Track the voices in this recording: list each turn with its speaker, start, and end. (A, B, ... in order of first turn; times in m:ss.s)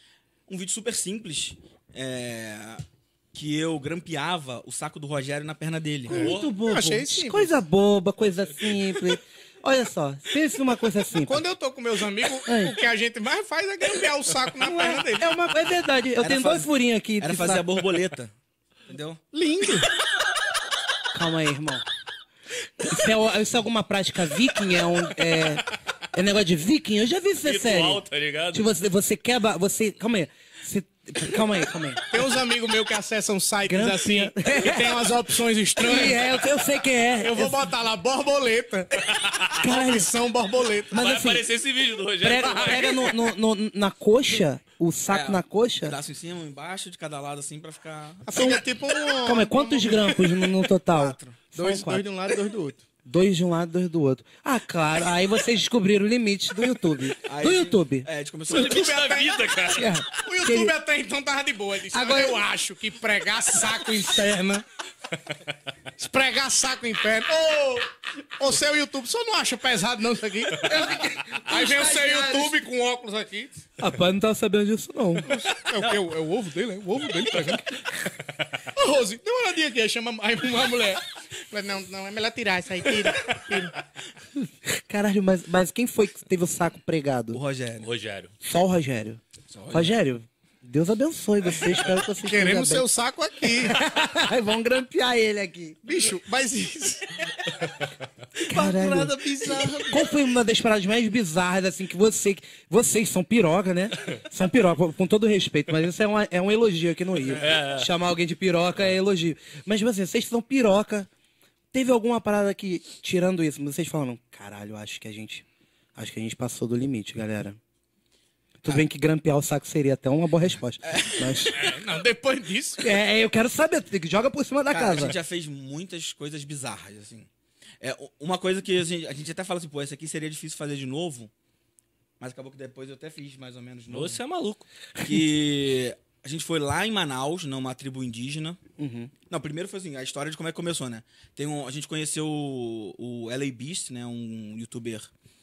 0:00.5-0:06.4 A
0:06.1-0:11.4 B
0:06.1-0:07.5 C
0:11.2-0:15.3 C
0:12.4-0:12.7 B
0:14.6-0:17.6 B
0:16.2-0:18.3 A
0:18.9-0:19.2 A
0:19.3-0:19.9 C
0:21.1-0:21.8 B
0:22.8-0:32.0 B
0:27.4-0:28.7 D
0:32.1-0:36.4 C
0:33.6-0:35.0 B
0:35.8-0:37.6 B
0:37.2-0:41.0 C
0:39.6-0:40.1 B
0:40.9-0:41.4 B
0:40.9-0:43.2 D
0:42.2-0:46.0 B
0:45.1-0:48.5 A
0:48.3-0:52.8 C
0:48.3-0:48.6 B
0:49.2-0:52.0 B
0:53.0-0:58.1 B
0:57.2-0:59.0 A
0:58.5-0:59.9 D
0:58.5-1:04.6 C
0:59.7-1:00.7 B
1:01.9-1:02.4 B
1:06.0-1:10.9 C
1:10.6-1:12.6 B
1:11.4-1:13.5 C
1:13.8-1:15.3 B
1:15.2-1:17.7 C
1:18.7-1:23.8 C
1:24.4-1:27.4 B
1:27.3-1:27.9 A
1:27.8-1:28.3 D
1:28.4-1:29.2 B
1:29.5-1:30.0 A
1:29.7-1:32.8 B
1:32.2-1:33.8 C
1:33.6-1:35.8 B
1:35.8-1:37.2 C
1:38.4-1:40.1 C
1:38.4-1:51.1 B
1:47.4-1:47.9 D
1:51.7-1:55.4 B
1:56.0-1:57.6 B
1:58.6-2:01.6 B
2:00.8-2:01.6 A
2:01.5-2:02.8 C
2:02.8-2:05.2 B
2:04.7-2:07.3 A
2:07.8-2:11.3 A
2:12.2-2:14.2 A
2:13.9-2:14.6 D
2:15.0-2:18.6 A
2:18.8-2:19.1 B
2:19.3-2:25.1 A